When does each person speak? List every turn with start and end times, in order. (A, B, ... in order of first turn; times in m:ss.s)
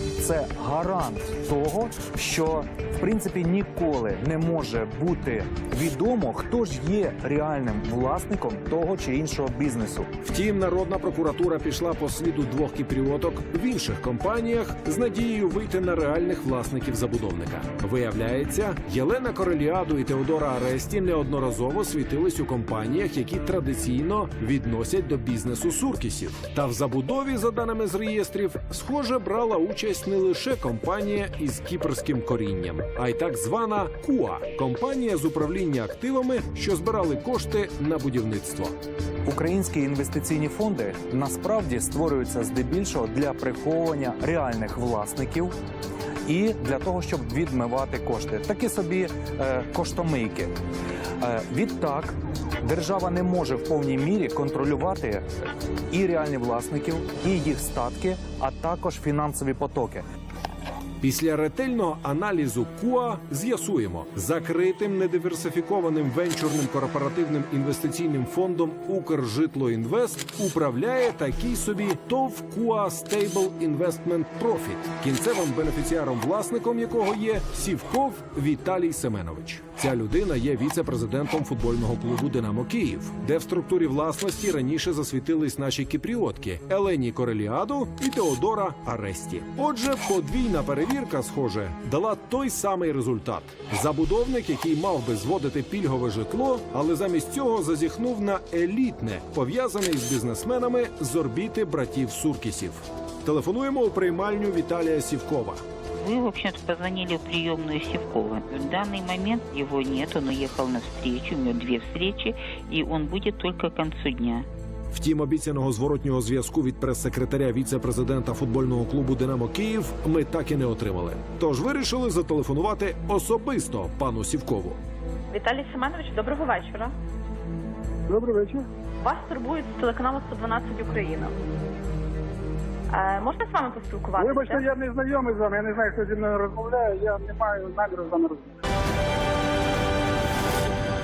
0:00.2-0:10.0 A
0:10.2-0:38.7 B
0:39.3-0:45.5 A
0:46.2-0:50.5 A
0:51.2-0:55.2 A
0:55.9-1:00.0 A
1:01.0-1:45.6 B
1:46.0-1:54.5 C
1:54.9-2:04.8 B
2:05.3-2:06.9 D
2:08.1-2:08.6 E
2:09.0-2:11.3 D
2:12.9-2:14.5 D
2:14.1-2:18.5 E